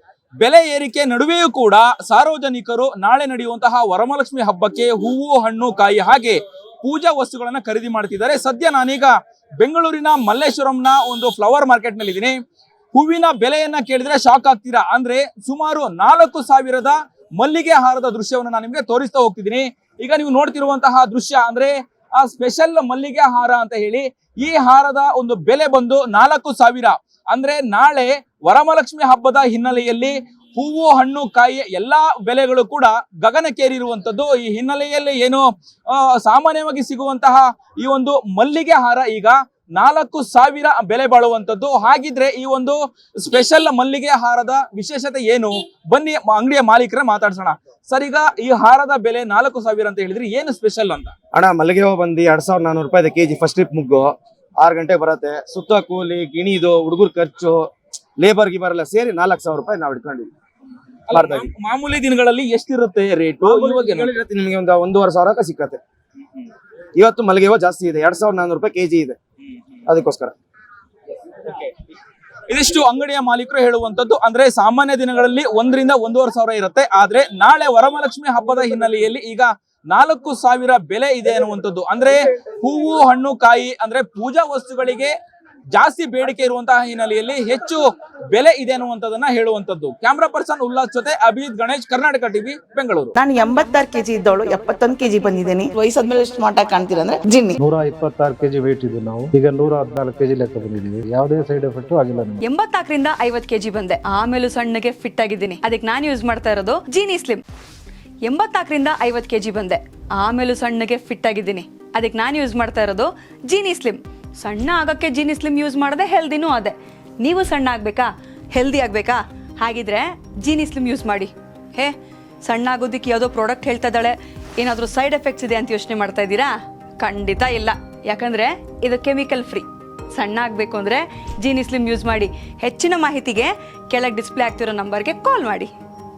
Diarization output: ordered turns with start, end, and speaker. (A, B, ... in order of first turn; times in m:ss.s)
0:00.4-0:12.4 A
0:12.9-0:51.1 A
0:51.3-1:00.3 B
1:01.1-1:04.1 A
1:01.1-1:01.5 B
1:03.4-1:05.8 B
1:07.0-1:09.2 B
1:09.9-1:10.3 B
1:12.5-1:25.1 A
1:25.7-1:33.2 A
1:33.2-1:37.6 C
1:37.6-1:42.4 D
1:42.4-1:47.4 E
1:48.2-2:15.7 E